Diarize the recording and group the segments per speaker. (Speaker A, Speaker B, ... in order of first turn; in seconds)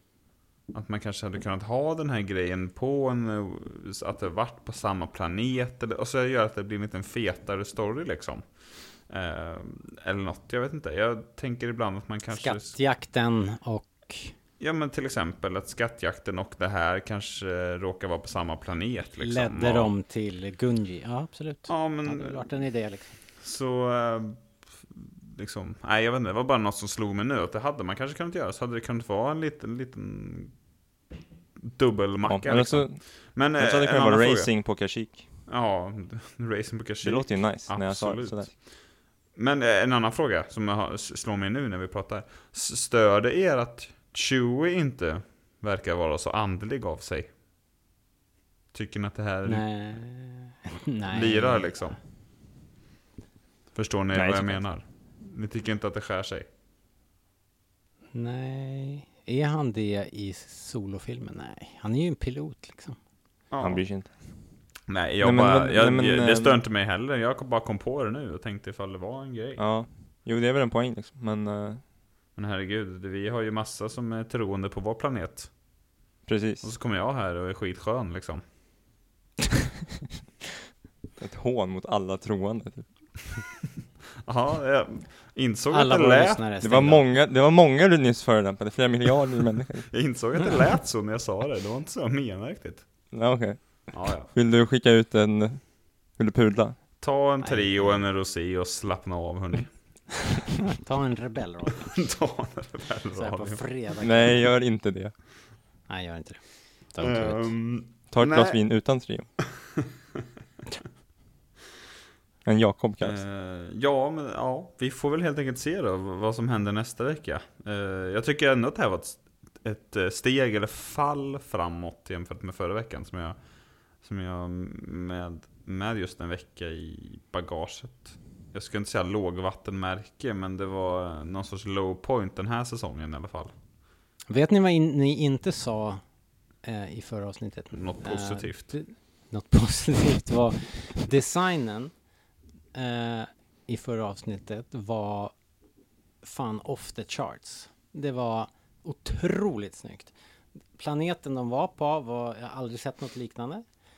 Speaker A: 0.7-12.8, 14.6-19.9, 21.7-22.5, 23.4-24.4, 25.0-30.5, 31.6-34.5, 35.5-38.6, 39.4-47.3, 48.7-49.8, 51.1-52.0, 53.8-56.5, 63.5-63.8, 64.9-69.6, 72.4-75.5, 76.6-78.4, 84.2-86.4, 89.9-92.8, 93.9-94.3, 97.0-99.7, 102.0-103.6, 107.0-108.6, 113.0-123.4, 124.0-133.5, 137.7-138.7
Speaker B: 12.3-14.3, 19.2-23.1, 49.5-51.9, 58.1-63.0, 85.7-87.0, 97.4-98.0, 100.6-102.0, 103.2-104.4, 105.9-107.5, 134.3-136.0, 136.6-141.9, 142.7-145.3, 146.2-150.1, 150.8-153.6
Speaker C: 32.3-33.0, 33.5-35.2, 37.0-38.5, 54.1-54.6, 63.6-64.1, 65.2-66.6, 69.6-71.8, 76.3-76.7, 81.2-82.9, 86.6-89.9, 93.1-96.8, 104.0-105.1, 108.1-109.3, 112.5-113.2